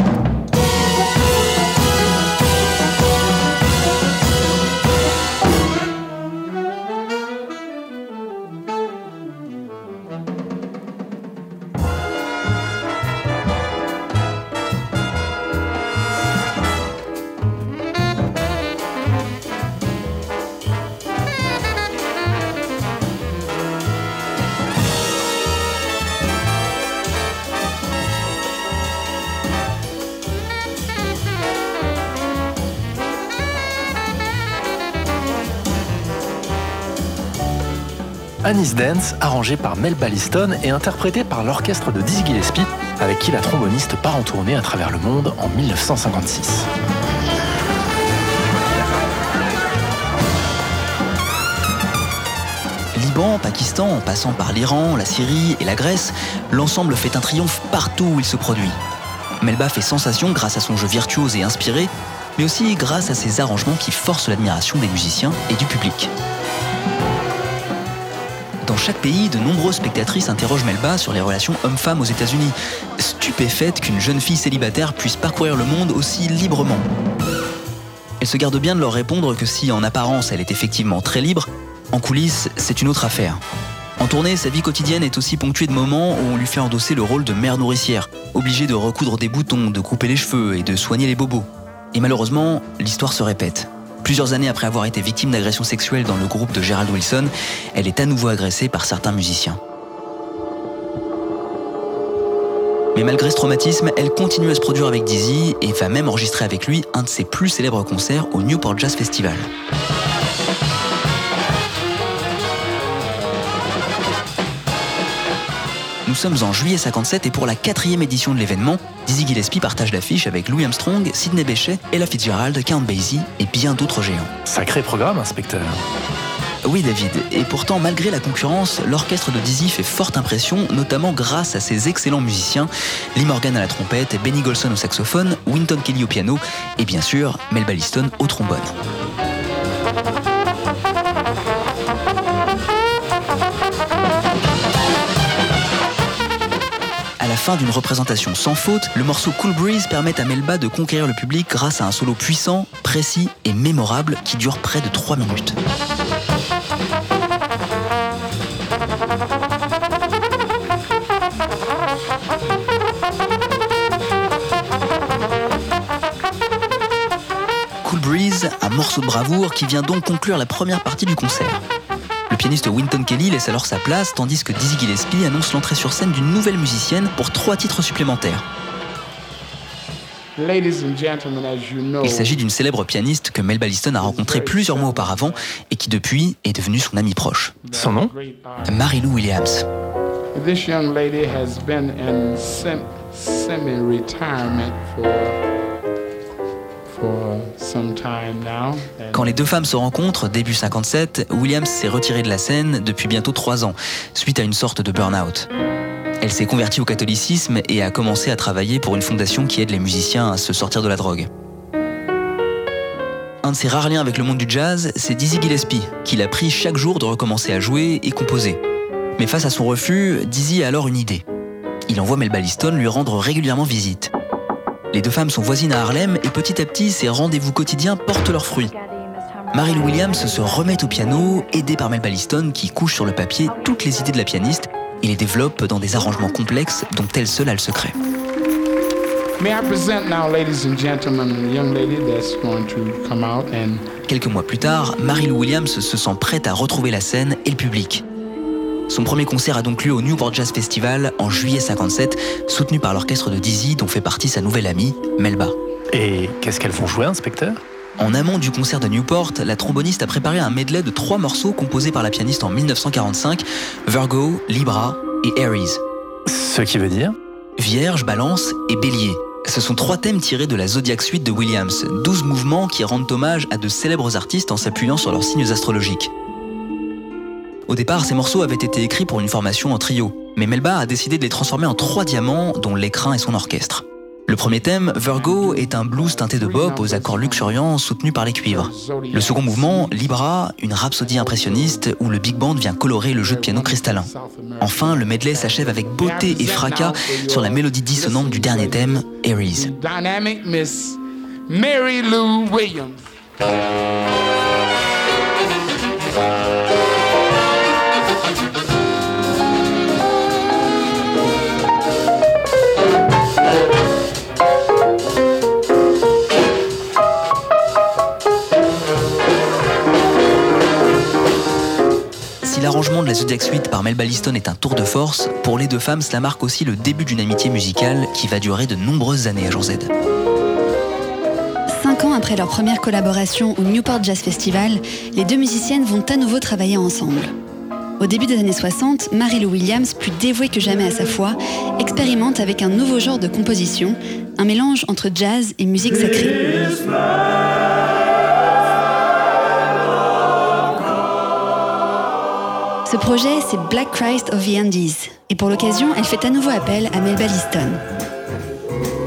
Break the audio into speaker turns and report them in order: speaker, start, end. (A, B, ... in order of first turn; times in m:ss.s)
0:38.4-0:46.7 A
0:52.9-0:58.8 B
0:59.4-1:06.1 B
1:08.6-1:16.8 B
1:18.2-1:23.4 B
1:24.0-1:39.6 B
1:42.9-1:49.5 B
1:56.0-2:04.3 B
2:04.4-2:05.8 A
2:06.6-2:18.7 B
2:27.2-2:35.6 B
2:47.8-2:51.6 B
2:52.3-2:58.4 B
3:00.4-3:02.4 C
3:02.0-3:07.5 B
3:04.0-3:05.4 C
3:07.6-3:08.9 C
3:07.7-3:08.1 A
3:08.6-3:09.6 B
3:10.3-3:15.4 C
3:16.9-3:19.3 C
3:19.1-3:25.5 B
3:26.2-3:31.3 B
3:33.4-3:38.6 B
3:39.2-3:41.2 B
3:41.9-3:44.1 B
3:44.9-3:48.7 B
3:49.5-3:57.9 B
3:59.4-4:03.8 C
4:04.1-4:08.0 B
4:08.9-4:15.6 B
4:15.9-4:17.6 A
4:18.0-4:25.8 B
4:26.3-4:27.2 A
4:27.6-4:36.1 B
4:37.7-4:59.7 B
4:45.0-4:47.6 C
4:48.5-4:50.0 C
4:51.3-4:51.8 C
4:53.1-5:03.0 C
5:22.4-5:29.9 B
5:31.7-5:37.3 D
5:38.0-5:46.8 D
5:52.8-5:57.8 D